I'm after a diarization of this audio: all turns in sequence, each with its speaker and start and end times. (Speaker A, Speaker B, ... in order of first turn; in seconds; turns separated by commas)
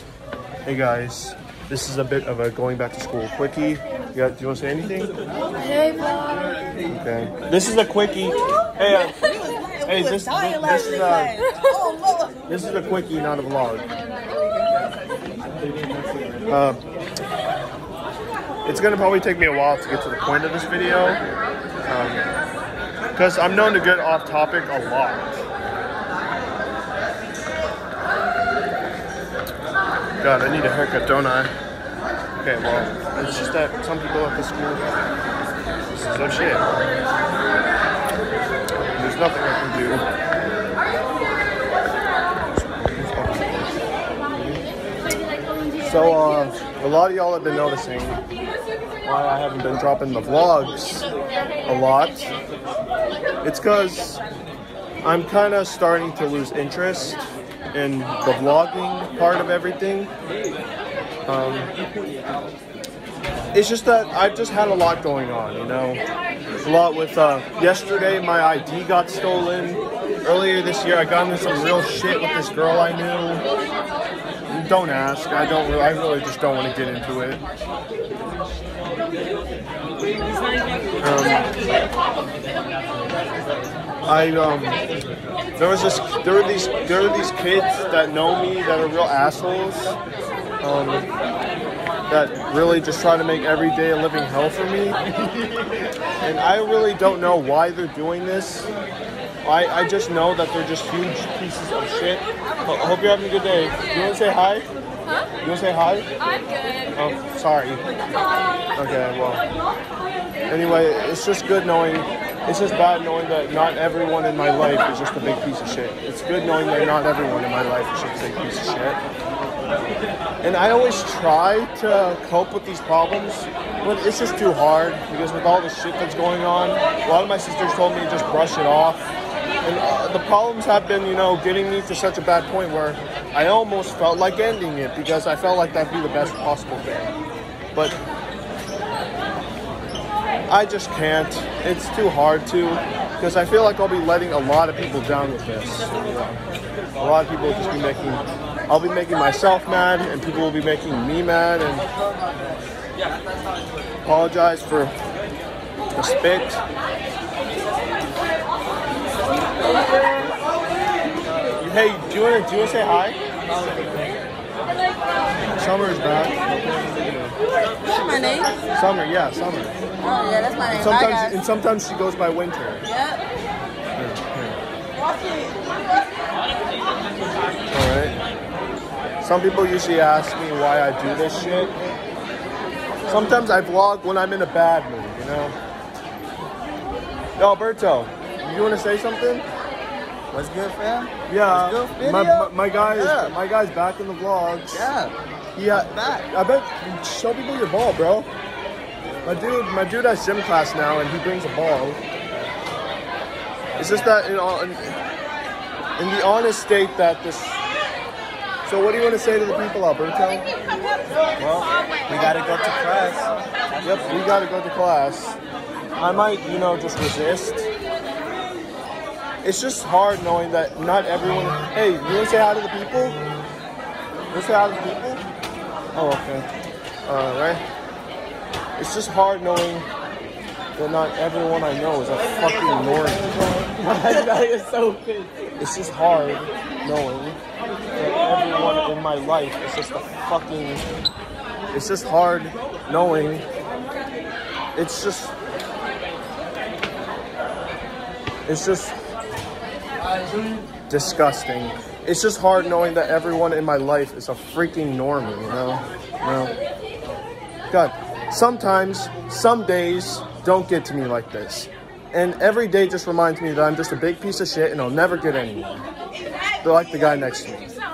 Speaker A: 0.7-5.1, Speaker B: 5.5-6.5, Speaker A: 6.9-9.3, Speaker B: 8.9-12.4, Speaker A: 9.8-11.4, Speaker A: 12.5-13.8, Speaker A: 15.8-16.8, Speaker A: 18.6-21.2, Speaker A: 21.9-22.2, Speaker A: 23.1-25.4, Speaker A: 30.2-31.5, Speaker A: 32.4-34.9, Speaker A: 35.9-36.6, Speaker A: 38.9-40.0, Speaker A: 42.5-43.7, Speaker A: 44.3-44.6, Speaker A: 45.8-48.2, Speaker A: 49.0-51.0, Speaker A: 51.7-52.3, Speaker A: 53.4-54.2, Speaker A: 55.0-57.2, Speaker A: 57.7-60.1, Speaker A: 61.3-61.7, Speaker A: 63.5-66.0, Speaker A: 66.6-73.4, Speaker A: 74.5-77.4, Speaker A: 81.0-81.5, Speaker A: 84.1-84.8, Speaker A: 85.6-90.0, Speaker A: 90.6-91.1, Speaker A: 92.1-95.0, Speaker A: 96.2-98.7, Speaker A: 99.4-104.7, Speaker A: 105.4-106.1, Speaker A: 106.9-107.8, Speaker A: 108.8-109.5, Speaker A: 110.5-119.0, Speaker A: 120.4-129.1, Speaker A: 129.6-137.1, Speaker A: 140.5-146.4, Speaker A: 147.0-151.9, Speaker A: 154.0-154.9, Speaker A: 155.9-156.6, Speaker A: 161.6-163.2, Speaker A: 165.6-167.3, Speaker B: 167.8-168.6, Speaker A: 168.7-169.8, Speaker B: 170.0-171.4, Speaker A: 170.7-172.8, Speaker B: 172.8-173.2, Speaker A: 173.9-174.6, Speaker B: 175.0-175.8, Speaker A: 177.7-178.2, Speaker A: 179.2-181.8, Speaker A: 183.1-185.6, Speaker A: 187.4-189.4, Speaker C: 190.3-193.3, Speaker A: 191.3-194.9, Speaker C: 194.7-195.1, Speaker A: 195.5-198.3, Speaker C: 195.8-196.3, Speaker A: 199.2-202.0, Speaker A: 203.8-204.9, Speaker A: 206.0-207.7, Speaker A: 208.6-210.5, Speaker C: 211.4-213.3, Speaker A: 213.8-215.4, Speaker A: 215.9-217.7, Speaker A: 219.4-223.2, Speaker A: 224.3-225.2, Speaker A: 225.9-226.5, Speaker A: 227.1-227.6, Speaker A: 228.8-229.9, Speaker A: 230.8-233.3, Speaker C: 233.8-235.3, Speaker A: 235.6-237.4, Speaker A: 237.9-240.8, Speaker A: 241.7-243.4, Speaker A: 244.8-245.3, Speaker A: 248.4-249.0, Speaker A: 250.9-256.5, Speaker A: 257.7-265.8, Speaker A: 266.6-267.7